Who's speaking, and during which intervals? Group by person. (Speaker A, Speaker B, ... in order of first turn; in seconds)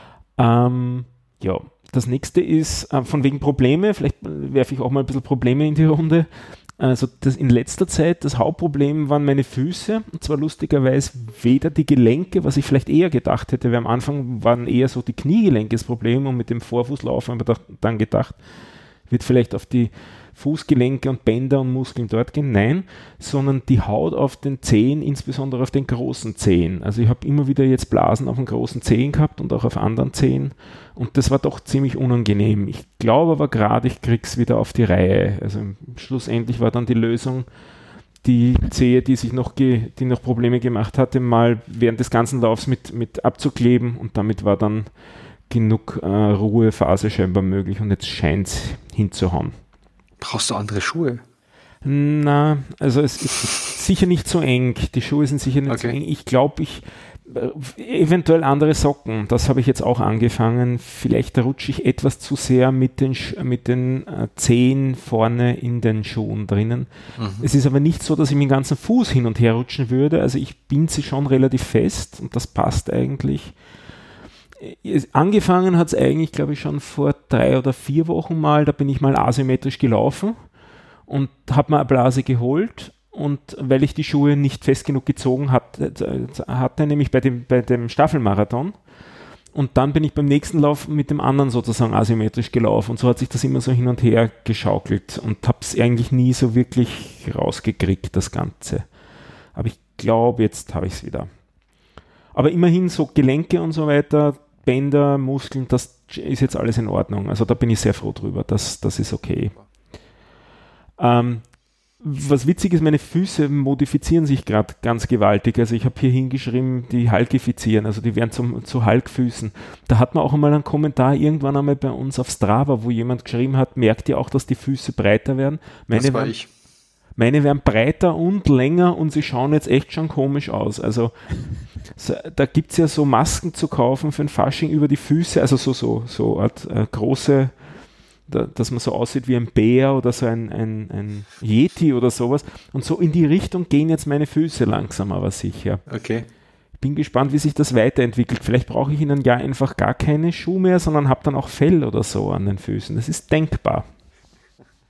Speaker A: 0.4-18.4, 19.1-37.5, 38.2-44.9, 45.5-49.6, 51.8-73.6, 74.6-80.4, 81.1-88.8, 89.5-98.9, 99.5-101.3, 102.3-109.6, 111.0-126.3, 127.2-137.6, 138.3-145.8, 146.8-153.9
Speaker B: 50.2-51.2, 55.7-56.0, 67.2-67.5, 125.9-126.5, 145.9-146.3